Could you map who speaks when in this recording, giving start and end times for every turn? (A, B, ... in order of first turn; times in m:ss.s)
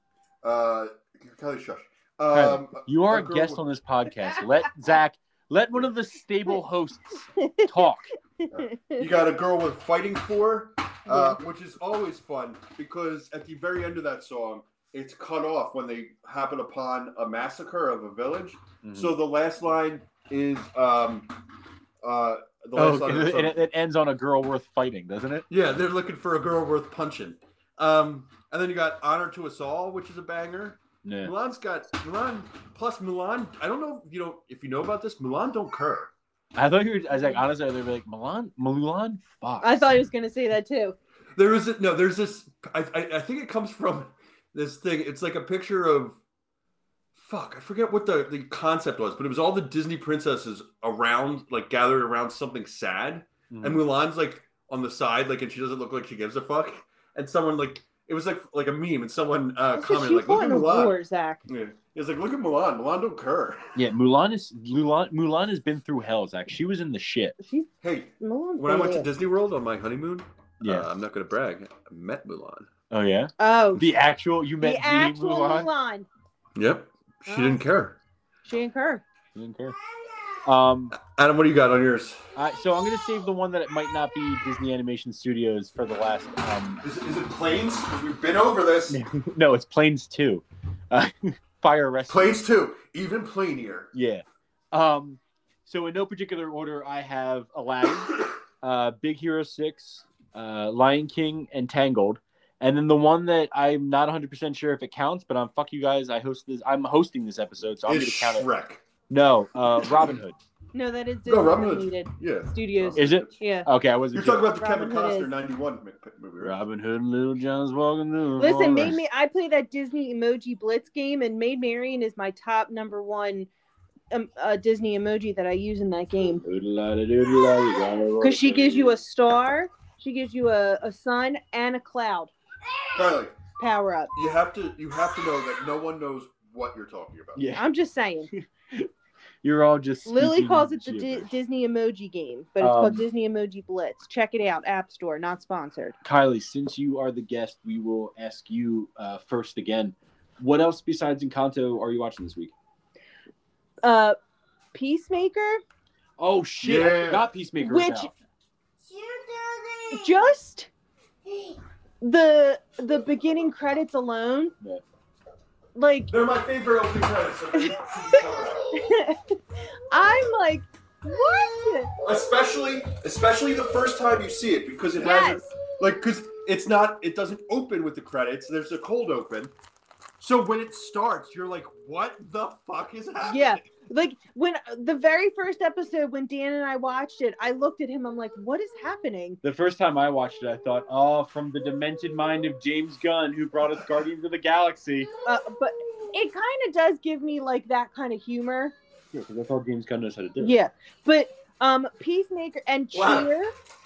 0:00.4-0:03.6 A
0:02.3-0:08.1 B
0:07.4-0:07.8 C
0:08.4-0:09.1 C
0:08.5-0:21.3 A
0:11.1-0:11.4 C
0:18.8-0:19.2 B
0:22.0-0:23.6 A
0:22.8-0:25.5 B
0:25.5-0:36.1 A
0:31.0-0:31.3 B
0:36.6-0:39.9 B
0:39.6-0:41.0 C
0:41.4-0:46.2 A
0:47.2-1:01.0 A
0:53.5-0:53.8 B
0:59.8-1:01.4 C
1:01.5-1:03.7 A
1:03.8-1:07.4 B
1:07.4-1:09.1 C
1:07.8-1:12.7 A
1:10.6-1:10.9 B
1:12.9-1:15.7 B
1:13.4-1:13.9 C
1:14.6-1:16.1 C
1:16.6-1:18.0 A
1:17.3-1:17.6 C
1:18.4-1:19.0 C
1:19.4-1:19.8 B
1:20.4-1:21.0 B
1:20.9-1:22.2 A
1:22.4-1:26.8 B
1:26.8-1:29.0 A
1:28.9-1:32.4 B
1:32.1-1:33.9 A
1:33.9-1:48.5 B
1:47.9-1:48.8 A
1:49.1-1:50.4 B
1:50.7-1:53.7 C
1:51.3-1:53.4 A
1:53.0-1:54.5 B
1:54.1-1:56.6 A
1:54.6-1:55.3 C
1:56.4-1:59.0 B
1:58.4-2:03.5 C
2:04.1-2:06.4 C
2:06.4-2:09.0 B
2:08.2-2:12.3 C
2:12.9-2:13.4 A
2:13.6-2:14.1 C
2:14.1-2:17.4 A
2:17.4-2:17.6 B
2:17.6-2:18.3 C
2:18.3-2:18.9 B
2:19.4-2:21.3 B
2:20.1-2:26.0 C
2:22.6-2:23.1 B
2:26.0-2:32.5 B
2:33.8-2:34.2 C
2:34.7-2:35.6 C
2:36.2-2:38.1 B
2:36.6-2:37.3 A
2:37.6-2:38.1 C
2:39.9-2:40.7 C
2:42.0-2:44.5 C
2:45.8-2:46.1 C
2:46.1-2:48.8 A
2:47.6-2:49.4 C
2:49.9-2:51.9 C
2:52.0-2:59.5 A
2:55.0-2:55.5 C
3:00.2-3:03.6 A
3:03.2-3:09.4 C
3:09.4-3:15.1 B
3:15.2-3:18.8 C
3:19.1-3:20.6 B
3:20.4-3:23.5 C
3:22.9-3:23.3 A